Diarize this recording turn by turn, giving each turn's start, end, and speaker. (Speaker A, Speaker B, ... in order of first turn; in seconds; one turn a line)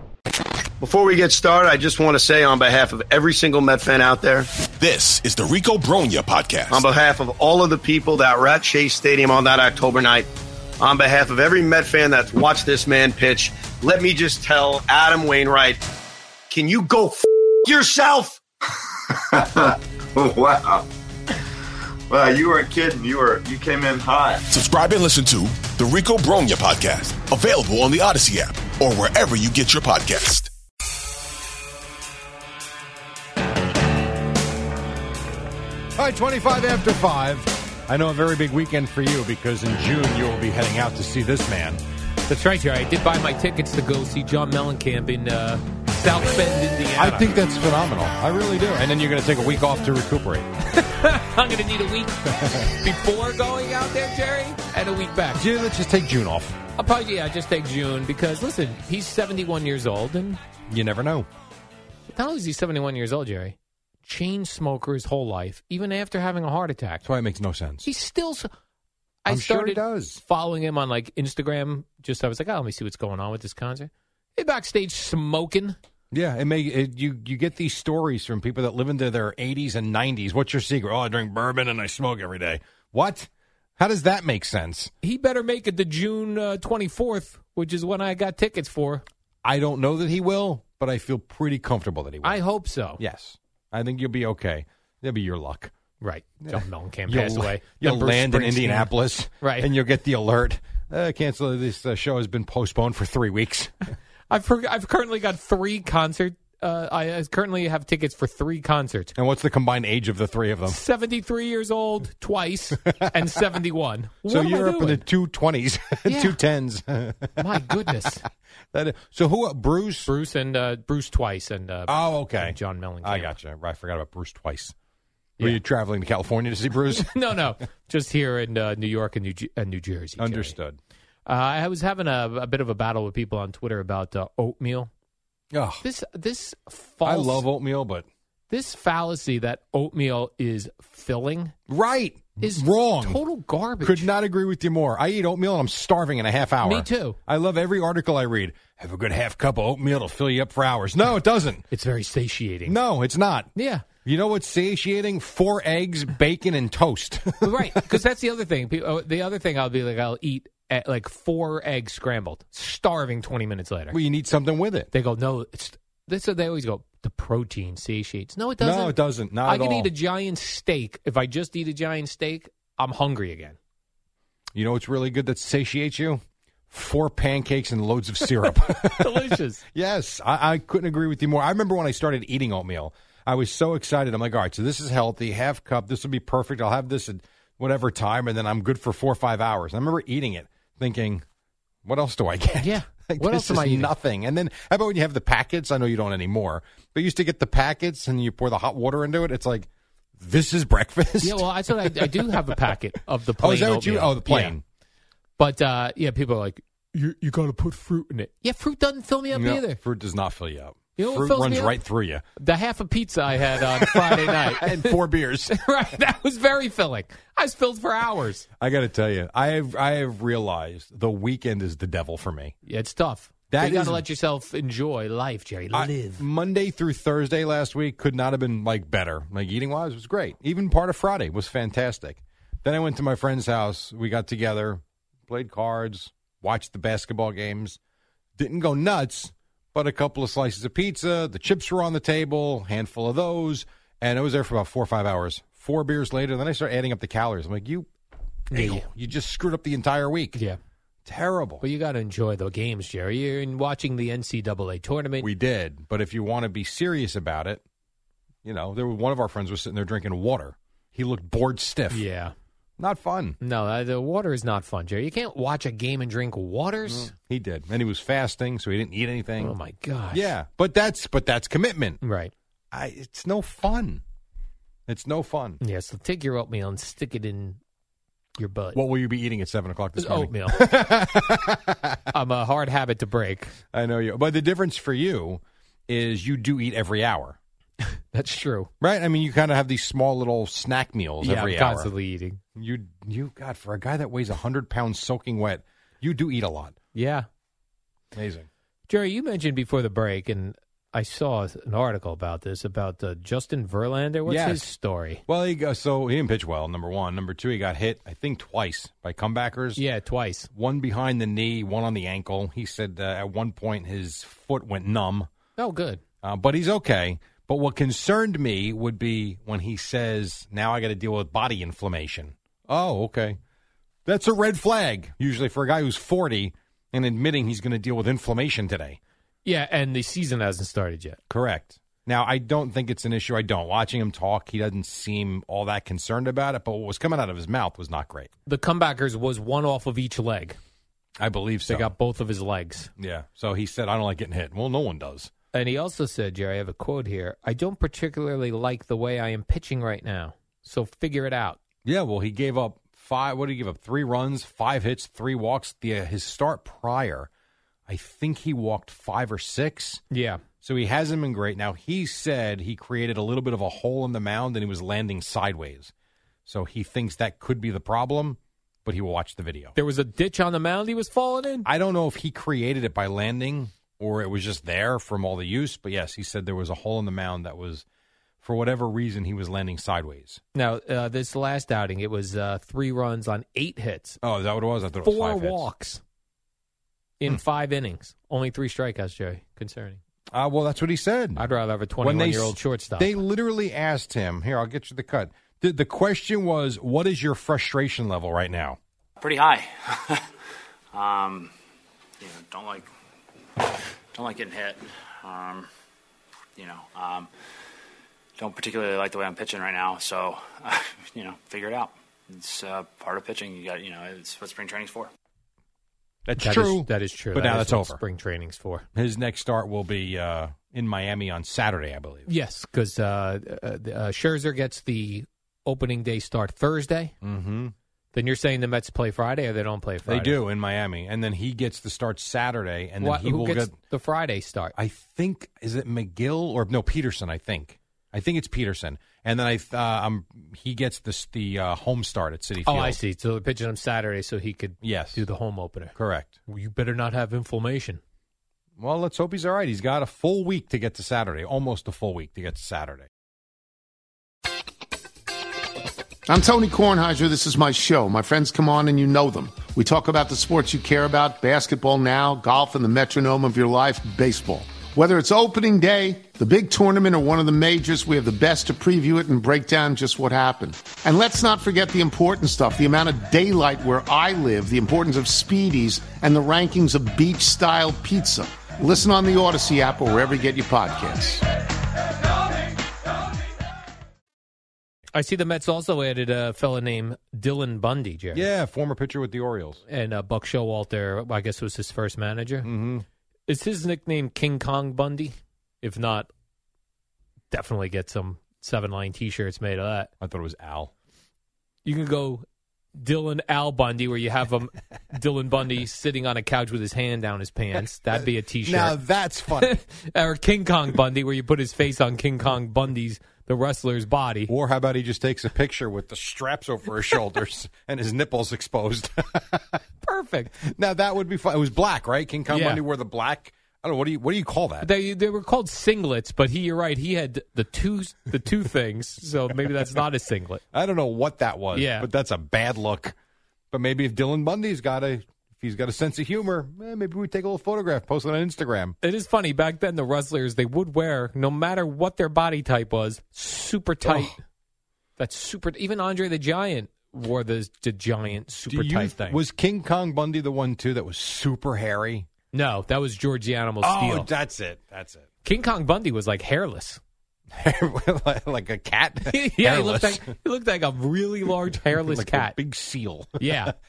Speaker A: 0.8-4.5
Speaker B: 4.8-6.9
Speaker A: 6.7-10.3
Speaker A: 10.8-15.8
Speaker A: 16.5-18.4
Speaker C: 19.4-20.8
Speaker C: 22.1-24.4
Speaker B: 24.5-30.5
Speaker D: 36.0-41.8
Speaker E: 42.3-47.3
Speaker D: 47.0-50.5
Speaker E: 50.6-55.5
Speaker D: 55.4-56.6
Speaker E: 56.8-60.4
Speaker D: 60.7-61.3
Speaker E: 62.1-67.0
Speaker D: 67.0-67.9
Speaker E: 67.8-68.5
Speaker E: 69.2-75.8
Speaker D: 69.3-70.2
Speaker D: 76.1-84.9
Speaker E: 85.0-89.0
Speaker D: 89.4-92.4
Speaker E: 92.2-93.0
Speaker D: 93.0-95.7
Speaker E: 96.0-99.7
Speaker D: 96.4-103.7
Speaker E: 104.3-109.1
Speaker D: 109.2-110.8
Speaker E: 110.7-115.0
Speaker D: 114.3-117.6
Speaker E: 116.1-116.4
Speaker E: 117.4-118.2
Speaker D: 118.7-120.1
Speaker E: 120.1-123.3
Speaker D: 121.9-124.7
Speaker D: 125.4-127.2
Speaker E: 126.9-130.6
Speaker D: 130.2-130.8
Speaker E: 131.2-134.9
Speaker D: 135.5-135.8
Speaker E: 135.8-137.5
Speaker D: 137.0-138.1
Speaker E: 138.5-141.5
Speaker D: 141.7-143.2
Speaker E: 142.4-144.1
Speaker D: 143.8-151.7
Speaker E: 146.6-147.2
Speaker E: 151.7-152.8
Speaker D: 152.7-153.5
Speaker E: 153.6-153.8
Speaker D: 154.0-158.0
Speaker E: 157.4-164.0
Speaker D: 163.9-164.9
Speaker E: 164.9-173.6
Speaker D: 168.6-169.9
Speaker D: 174.6-176.2
Speaker D: 176.7-191.2
Speaker E: 178.5-179.6
Speaker D: 191.8-199.7
Speaker E: 192.6-193.9
Speaker D: 200.2-202.7
Speaker E: 201.2-204.6
Speaker D: 203.4-204.6
Speaker E: 205.4-209.8
Speaker D: 209.3-212.2
Speaker E: 211.0-211.8
Speaker E: 212.4-218.4
Speaker D: 213.8-215.6
Speaker D: 218.6-222.5
Speaker E: 222.6-226.2
Speaker D: 223.5-224.0
Speaker D: 225.7-237.8
Speaker D: 238.4-247.9
Speaker E: 248.5-248.9
Speaker D: 248.5-250.4
Speaker D: 251.1-251.6
Speaker E: 251.6-255.3
Speaker D: 255.2-257.6
Speaker D: 258.4-262.1
Speaker E: 261.9-262.3
Speaker D: 262.8-263.4
Speaker E: 263.4-267.1
Speaker D: 266.9-269.6
Speaker E: 269.4-270.3
Speaker D: 270.1-272.0
Speaker E: 272.0-272.3
Speaker D: 272.7-274.0
Speaker D: 274.9-275.6
Speaker E: 275.6-277.6
Speaker E: 278.4-278.8
Speaker D: 278.7-282.0
Speaker E: 280.0-280.6
Speaker E: 282.1-283.5
Speaker D: 283.7-287.4
Speaker E: 287.9-288.7
Speaker D: 288.8-291.9
Speaker E: 291.2-292.4
Speaker D: 292.6-296.8
Speaker E: 296.9-297.3
Speaker D: 298.1-298.5
Speaker E: 298.9-305.2
Speaker D: 304.2-304.7
Speaker D: 305.2-309.8
Speaker E: 309.8-310.5
Speaker D: 310.5-315.3
Speaker E: 315.6-316.0
Speaker D: 316.2-323.4
Speaker D: 324.1-329.0
Speaker E: 329.4-331.2
Speaker D: 331.3-338.3
Speaker E: 338.4-340.6
Speaker D: 341.2-341.9
Speaker E: 341.7-342.9
Speaker D: 343.0-345.3
Speaker E: 345.5-351.6
Speaker D: 351.9-357.3
Speaker D: 357.9-360.0
Speaker E: 360.1-360.4
Speaker D: 360.6-365.9
Speaker D: 366.4-369.8
Speaker E: 369.8-371.7
Speaker D: 371.7-377.8
Speaker D: 378.4-380.4
Speaker E: 380.5-384.2
Speaker D: 384.2-385.7
Speaker E: 385.0-386.0
Speaker E: 387.2-390.0
Speaker D: 390.3-391.4
Speaker E: 391.4-393.2
Speaker D: 392.0-398.8
Speaker F: 399.2-400.2
Speaker F: 400.9-401.5
Speaker F: 402.2-402.9
Speaker F: 404.1-405.7
Speaker F: 406.6-407.3
Speaker F: 408.4-415.1
Speaker D: 416.2-418.0
Speaker E: 416.4-418.9
Speaker D: 418.9-422.3
Speaker E: 422.2-427.1
Speaker D: 427.2-427.7
Speaker E: 428.1-430.4
Speaker D: 430.1-433.8
Speaker E: 433.0-434.8
Speaker D: 434.8-443.0
Speaker E: 442.6-445.9
Speaker D: 444.8-445.2
Speaker D: 445.9-446.3
Speaker E: 446.4-448.0
Speaker D: 448.8-453.1
Speaker G: 456.3-481.4
Speaker E: 485.1-488.5
Speaker D: 488.3-489.8
Speaker E: 489.9-492.7
Speaker D: 492.6-493.1
Speaker E: 493.5-496.3
Speaker E: 497.5-500.1
Speaker D: 500.2-500.9
Speaker E: 501.8-502.4
Speaker E: 502.9-509.0
Speaker D: 508.6-509.8
Speaker E: 509.6-514.5
Speaker D: 514.5-519.6
Speaker E: 520.0-520.6
Speaker D: 520.6-524.9
Speaker E: 522.5-522.8
Speaker E: 524.8-530.6
Speaker D: 530.7-533.1
Speaker E: 531.7-532.1
Speaker D: 533.7-539.0
Speaker E: 539.0-544.4
Speaker D: 544.0-544.3
Speaker E: 545.2-549.4
Speaker D: 548.7-552.3
Speaker E: 552.5-554.3
Speaker D: 553.8-555.3
Speaker E: 555.4-557.0
Speaker D: 557.5-560.3
Speaker E: 559.3-562.6
Speaker D: 561.9-563.7
Speaker E: 563.4-563.7